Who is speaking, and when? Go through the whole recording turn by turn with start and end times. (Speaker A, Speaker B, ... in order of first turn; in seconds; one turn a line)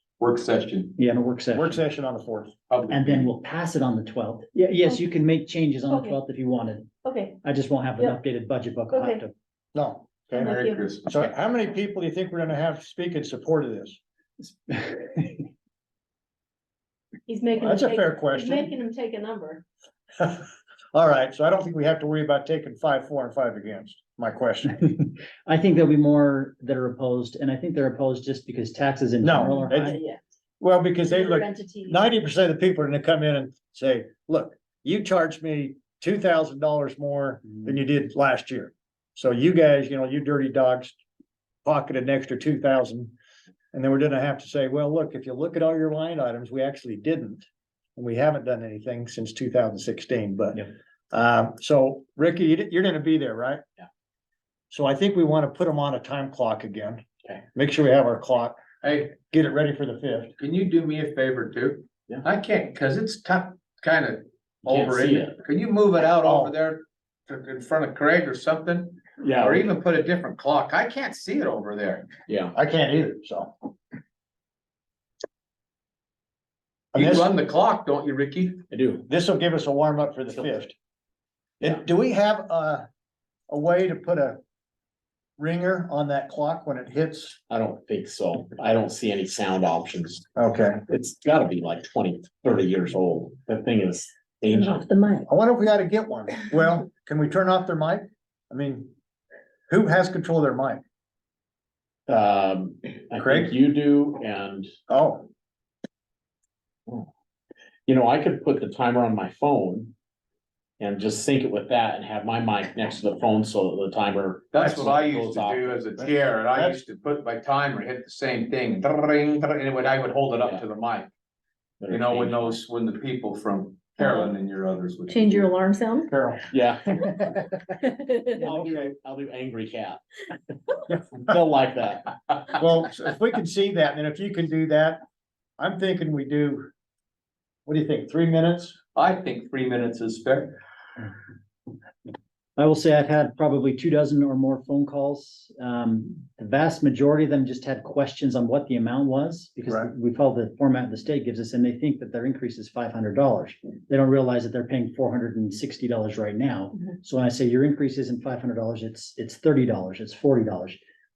Speaker A: 0.2-0.9
Speaker B: 1.0-1.8
Speaker C: 1.5-2.5
Speaker A: 2.7-3.3
Speaker B: 2.9-6.9
Speaker D: 5.9-6.2
Speaker D: 7.0-7.4
Speaker B: 7.4-9.3
Speaker D: 8.9-9.2
Speaker C: 9.7-10.5
Speaker D: 10.3-10.9
Speaker A: 10.4-11.3
Speaker C: 11.1-14.0
Speaker B: 14.7-15.4
Speaker D: 17.2-19.6
Speaker C: 17.6-18.7
Speaker C: 20.2-24.8
Speaker B: 24.8-30.0
Speaker C: 29.2-30.0
Speaker D: 29.4-30.2
Speaker C: 30.6-41.0
Speaker D: 31.0-32.0
Speaker C: 41.6-43.1
Speaker C: 43.7-53.6
Speaker C: 54.7-58.6
Speaker A: 58.8-59.2
Speaker C: 59.1-60.3
Speaker A: 60.4-72.1
Speaker E: 64.6-65.4
Speaker C: 66.2-66.5
Speaker E: 69.2-69.7
Speaker E: 72.3-72.5
Speaker C: 72.5-73.5
Speaker C: 76.9-77.3
Speaker A: 76.9-78.6
Speaker E: 78.7-79.0
Speaker C: 79.1-80.7
Speaker C: 81.6-82.8
Speaker C: 83.5-84.4
Speaker C: 85.4-87.4
Speaker E: 87.5-90.3
Speaker C: 90.3-90.8
Speaker E: 90.9-94.9
Speaker D: 94.5-95.3
Speaker C: 95.3-98.9
Speaker C: 99.7-100.8
Speaker E: 102.1-104.7
Speaker C: 103.2-103.5
Speaker C: 104.9-105.3
Speaker E: 107.8-110.0
Speaker E: 110.8-115.9
Speaker A: 114.5-121.1
Speaker C: 116.5-116.8
Speaker E: 120.3-120.7
Speaker E: 121.8-122.6
Speaker A: 121.9-125.5
Speaker D: 124.0-124.3
Speaker D: 125.1-126.1
Speaker C: 126.1-126.5
Speaker E: 126.5-127.4
Speaker D: 127.8-128.5
Speaker E: 128.4-130.0
Speaker C: 128.5-128.9
Speaker E: 131.1-132.2
Speaker C: 132.6-135.0
Speaker C: 135.6-136.7
Speaker C: 137.7-138.8
Speaker A: 138.9-140.6
Speaker B: 142.6-160.8